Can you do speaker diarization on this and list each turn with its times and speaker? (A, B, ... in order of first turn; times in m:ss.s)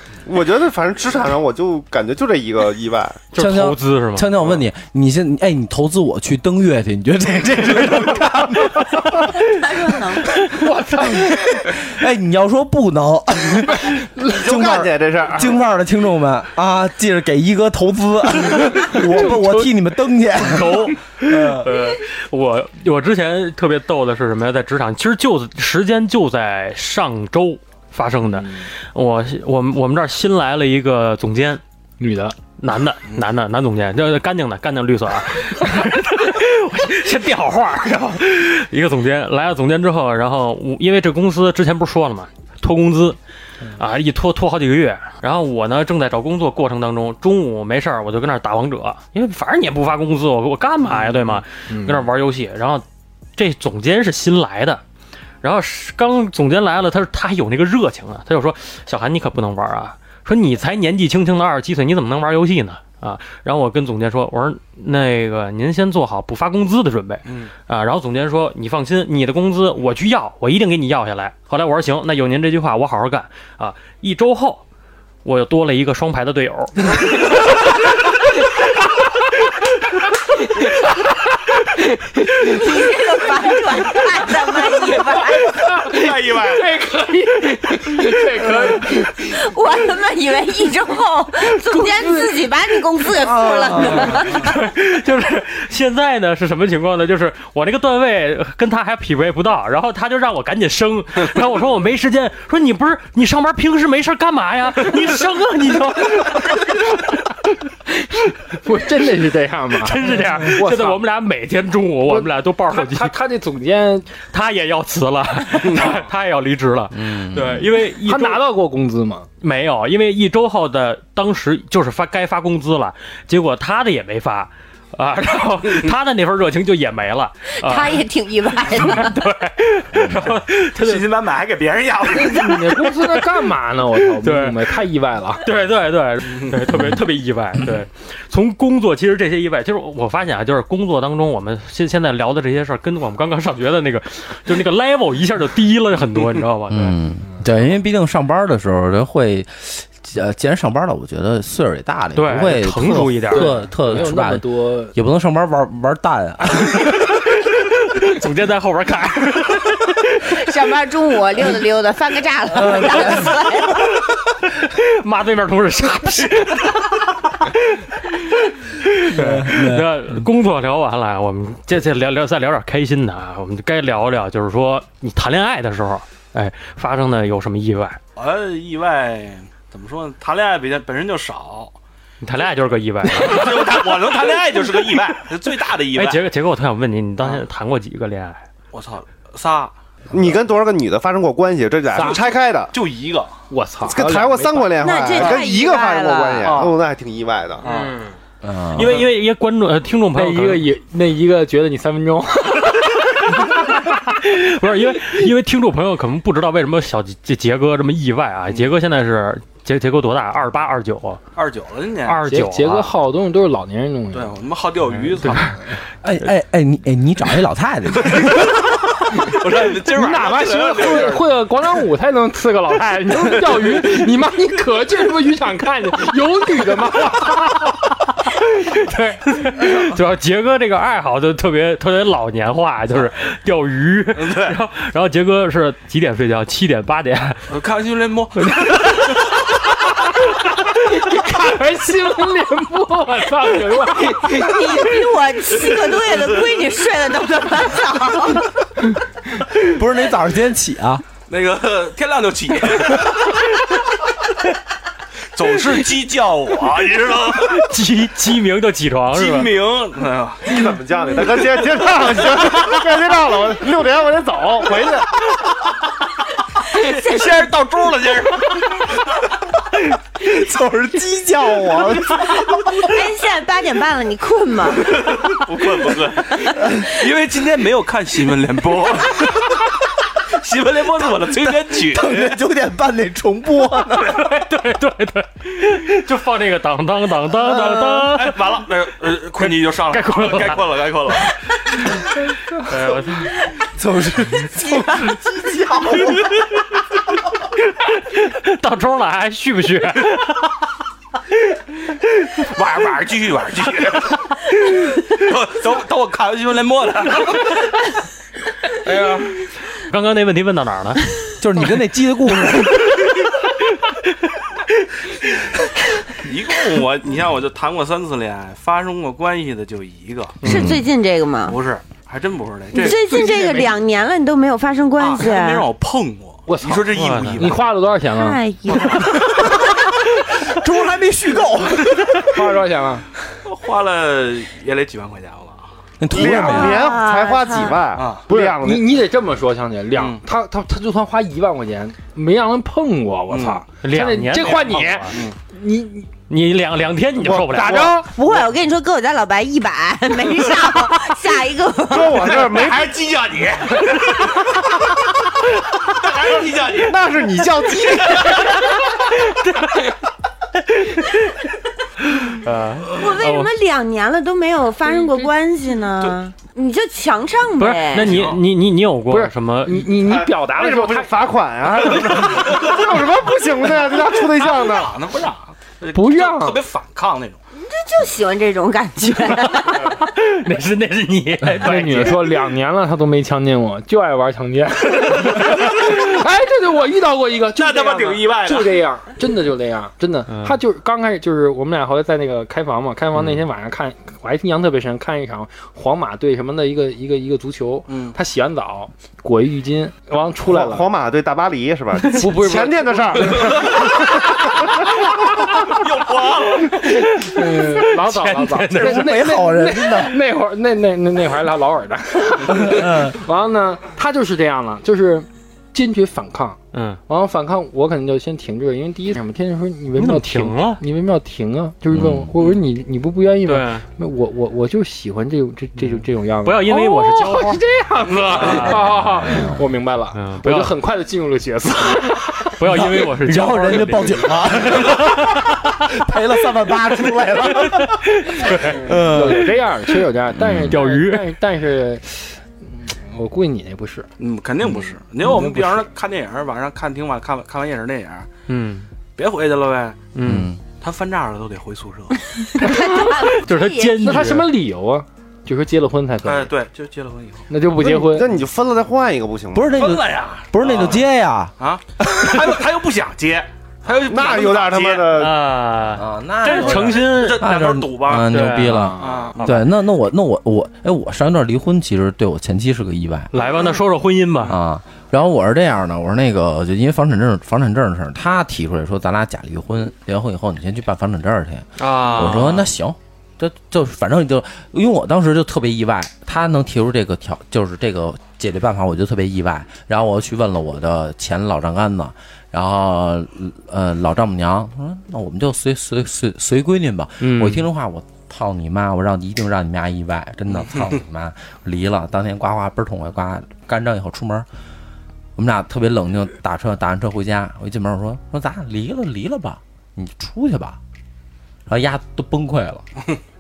0:00.3-0:03.2 A
0:03.3-0:04.3 B
0:03.4-0:09.4 C
0:09.4-0:10.5 D
0:10.6-0:11.3 E
0:11.0-0:21.8 C
0:14.3-0:15.6 A
0:20.4-0:31.6 B
0:28.3-0:28.7 E
0:32.0-0:32.4 E
0:32.6-0:43.2 B
0:43.8-0:52.8 B
0:51.7-0:52.1 E
0:53.4-0:54.8 B
0:55.4-1:14.6 B
1:07.3-1:07.5 F
1:15.2-1:16.9 B
1:22.3-1:25.6 D
1:25.7-1:29.2 E
1:25.8-1:26.7 F
1:29.1-1:34.6 D
1:33.2-1:34.2 C
1:34.1-1:47.0 B
1:48.5-1:51.0 E
1:49.8-1:53.1 B
1:52.1-1:54.1 E
1:54.3-1:58.4 B
1:56.9-1:57.7 C
1:58.0-1:59.3 E
1:59.4-2:08.0 B
2:07.6-2:09.2 D
2:08.7-2:11.1 B
2:09.9-2:10.3 C
2:10.7-2:12.6 F
2:12.1-2:15.4 E
2:14.2-2:14.7 B
2:15.4-2:27.0 B
2:26.7-2:36.9 C
2:32.2-2:33.5 B
2:33.3-2:35.0 E
2:37.0-2:40.4 B
2:40.2-2:43.8 D
2:42.6-2:43.3 C
2:44.5-2:48.2 B
2:48.8-2:58.0 B
2:49.1-2:50.0 C
2:58.2-3:01.7 F
3:02.2-3:03.9 B
3:03.1-3:06.2 F
3:06.0-3:08.4 B
3:08.7-3:09.7 F
3:10.1-3:12.7 A
3:11.9-3:12.2 E
3:12.7-3:13.4 F
3:13.5-3:14.8 E
3:13.8-3:17.6 A
3:14.8-3:16.5 D
3:16.4-3:16.8 F
3:17.6-3:18.1 F
3:17.7-3:18.1 B
3:18.4-3:19.1 C
3:18.7-3:20.7 B
3:20.1-3:23.5 E
3:23.4-3:31.2 B
3:31.4-3:32.2 F
3:32.1-3:32.9 B
3:32.2-3:34.4 E
3:34.1-3:35.6 F
3:35.2-3:35.6 B
3:35.3-3:35.5 E
3:36.0-3:38.7 C
3:38.2-3:41.3 F
3:39.8-3:47.8 E
3:48.6-3:57.4 B
3:54.1-3:54.6 F
3:57.5-3:59.0 F
4:00.8-4:04.8 E
4:04.2-4:08.5 D
4:09.6-4:11.0 C
4:11.3-4:13.4 F
4:15.3-4:17.7 F
4:17.4-4:19.6 B
4:19.1-4:20.6 F
4:20.4-4:25.1 A
4:26.7-4:29.0 F
4:26.8-4:27.3 D
4:30.3-4:32.2 C
4:32.7-4:35.3 D
4:34.8-4:39.6 F
4:36.4-4:36.6 D
4:40.3-4:42.3 F
4:41.3-4:44.4 C
4:43.9-4:48.4 B
4:47.4-4:48.1 C
4:48.1-4:51.3 F
4:49.4-4:50.6 B
4:52.6-4:53.4 B
4:53.8-4:56.3 C
4:54.6-4:55.2 D
4:57.8-5:00.6 B
5:02.3-5:07.6 F
5:08.9-5:09.3 F
5:09.8-5:11.1 B
5:11.4-5:13.0 C
5:16.2-5:20.6 F
5:20.4-5:20.8 B
5:20.4-5:20.8 C
5:20.4-5:21.6 D
5:21.4-5:23.1 F
5:22.7-5:25.7 D
5:22.9-5:23.7 E
5:25.0-5:27.6 F
5:26.5-5:28.4 E
5:26.9-5:27.5 B
5:28.1-5:29.3 D
5:28.7-5:29.0 F
5:29.0-5:32.3 C
5:32.2-5:33.1 E
5:33.4-5:35.7 F
5:36.0-5:36.8 C
5:36.1-5:38.9 A
5:36.2-5:36.6 E
5:36.2-5:37.8 D
5:37.9-5:38.2 F
5:38.3-5:46.1 E
5:39.9-5:40.2 F
5:43.3-5:43.6 F
5:43.8-5:45.2 B
5:46.3-5:47.9 B
5:47.2-5:48.0 A
5:47.5-5:48.1 E
5:48.0-5:52.2 D
5:51.9-5:53.0 A
5:52.5-5:54.4 F
5:55.9-5:57.0 F
5:56.7-5:58.6 A
5:58.1-5:58.6 F
6:02.1-6:03.5 B
6:03.0-6:08.2 D
6:07.6-6:09.9 B
6:08.0-6:08.4 F
6:09.1-6:11.1 E
6:10.0-6:15.0 A
6:12.0-6:13.1 F
6:13.8-6:17.4 F
6:15.9-6:16.6 E
6:17.6-6:20.0 D
6:19.8-6:22.4 B
6:21.6-6:40.9 E
6:27.6-6:28.8 F
6:37.9-6:38.2 F
6:40.5-6:44.2 A
6:42.1-6:43.7 E
6:43.4-6:43.9 F
6:45.6-6:47.0 F
6:46.8-7:12.6 E
6:46.8-6:49.1 B
6:48.7-6:50.2 C
6:52.5-6:53.2 C
6:56.7-6:57.0 B
7:00.0-7:00.8 B
7:01.9-7:02.3 C
7:03.5-7:03.8 B
7:05.8-7:07.6 B
7:08.3-7:08.8 B
7:08.7-7:09.6 C
7:10.2-7:10.7 B
7:12.6-7:15.6 B
7:12.7-7:19.6 C
7:17.4-7:18.8 B
7:18.5-7:24.1 E
7:20.3-7:20.8 C
7:20.7-7:21.4 B
7:24.2-7:28.3 F
7:25.2-7:25.9 E
7:28.5-7:28.9 B
7:29.2-7:30.1 F
7:30.2-7:30.5 B
7:30.2-7:30.6 C
7:30.7-7:32.2 F
7:32.4-7:34.3 D
7:32.6-7:34.5 B
7:34.0-7:36.5 E
7:36.2-7:37.5 F
7:37.5-7:38.3 E
7:37.8-7:39.8 A
7:39.5-7:42.5 C
7:39.8-7:41.0 F
7:41.6-7:45.2 F
7:44.0-7:45.4 A
7:45.1-7:47.5 B
7:45.9-7:53.3 C
7:46.4-7:48.3 F
7:48.2-7:48.9 B
7:48.6-7:49.4 E
7:49.0-7:49.6 F
7:53.3-7:54.6 B
7:54.5-8:24.5 C
8:01.8-8:02.7 B
8:17.2-8:17.7 B
8:25.4-8:30.8 C
8:31.7-8:32.8 C